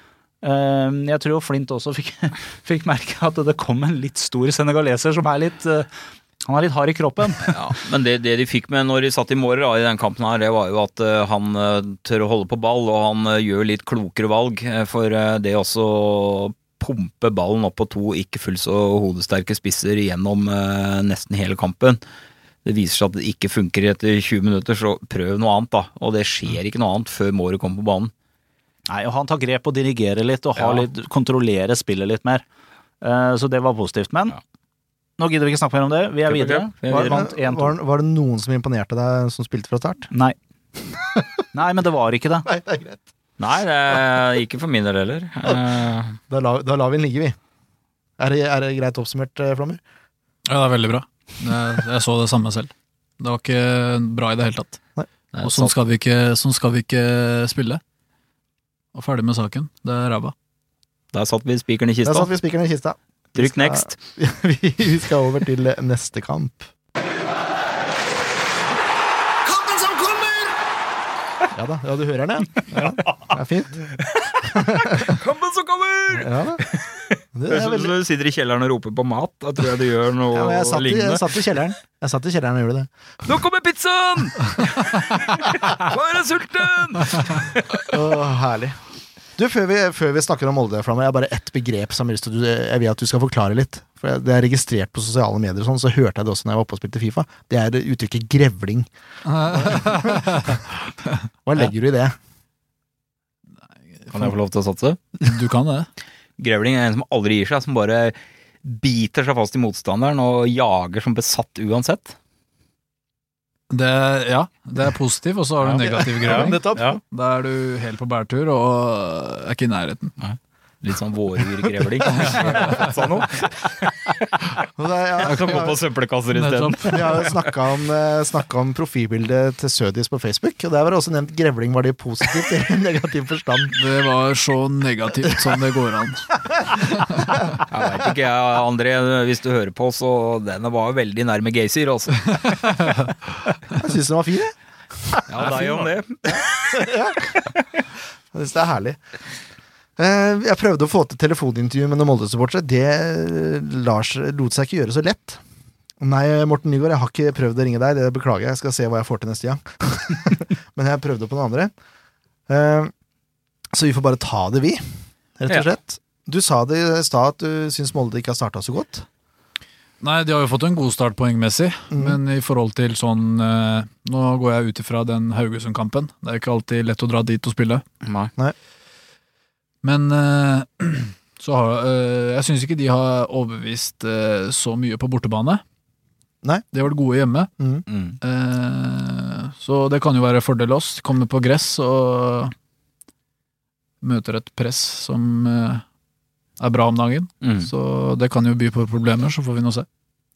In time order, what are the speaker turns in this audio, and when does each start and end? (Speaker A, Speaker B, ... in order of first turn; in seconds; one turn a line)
Speaker A: 0.4-7.6
Speaker B: 7.5-22.0
Speaker B: 22.6-28.1
Speaker A: 28.9-32.5
Speaker B: 30.6-30.9
Speaker A: 33.0-34.4
Speaker A: 35.2-37.8
Speaker B: 36.3-37.2
Speaker C: 36.9-40.1
Speaker A: 40.1-40.4
Speaker A: 41.5-42.5
Speaker C: 42.5-43.0
Speaker B: 43.4-46.2
Speaker C: 46.3-47.4
Speaker C: 48.2-49.8
Speaker D: 50.5-54.8
Speaker B: 55.3-55.7
Speaker D: 55.4-57.8
Speaker D: 58.9-60.3
Speaker B: 61.1-62.3
Speaker C: 62.0-66.7
Speaker B: 63.4-63.9
Speaker C: 69.5-70.5
Speaker C: 71.5-73.8
Speaker B: 72.7-73.3
Speaker B: 74.0-81.5
Speaker C: 74.5-75.2
Speaker C: 76.1-76.6
Speaker C: 77.3-78.0
Speaker C: 80.3-82.9
Speaker B: 83.2-88.0
Speaker C: 87.9-88.8
Speaker C: 89.4-98.9
Speaker D: 99.3-100.7
Speaker C: 99.5-100.6
Speaker C: 101.5-102.2
Speaker D: 104.0-104.3
Speaker B: 104.1-105.0
Speaker D: 105.2-105.9
Speaker B: 106.4-112.2
Speaker D: 113.7-120.2
Speaker B: 115.6-117.0
Speaker C: 116.2-117.0
Speaker B: 120.2-124.5
Speaker D: 122.2-123.0
Speaker C: 124.8-125.8
Speaker B: 125.3-127.5
Speaker D: 126.3-127.3
Speaker C: 126.9-133.8
Speaker D: 133.7-137.4
Speaker B: 137.6-142.8
Speaker C: 143.8-145.9
Speaker B: 145.3-147.6
Speaker C: 146.7-147.2
Speaker C: 148.3-149.0
Speaker C: 150.0-155.4
Speaker C: 156.0-161.7
Speaker C: 162.5-162.9
Speaker C: 163.7-169.1
Speaker D: 170.0-177.8
Speaker C: 171.9-172.2
Speaker B: 178.0-178.3
Speaker D: 179.8-185.6
Speaker D: 186.7-187.5
Speaker C: 187.6-187.8
Speaker B: 187.9-188.2
Speaker D: 188.2-192.5
Speaker D: 194.0-195.8
Speaker D: 196.6-199.9
Speaker B: 197.4-197.7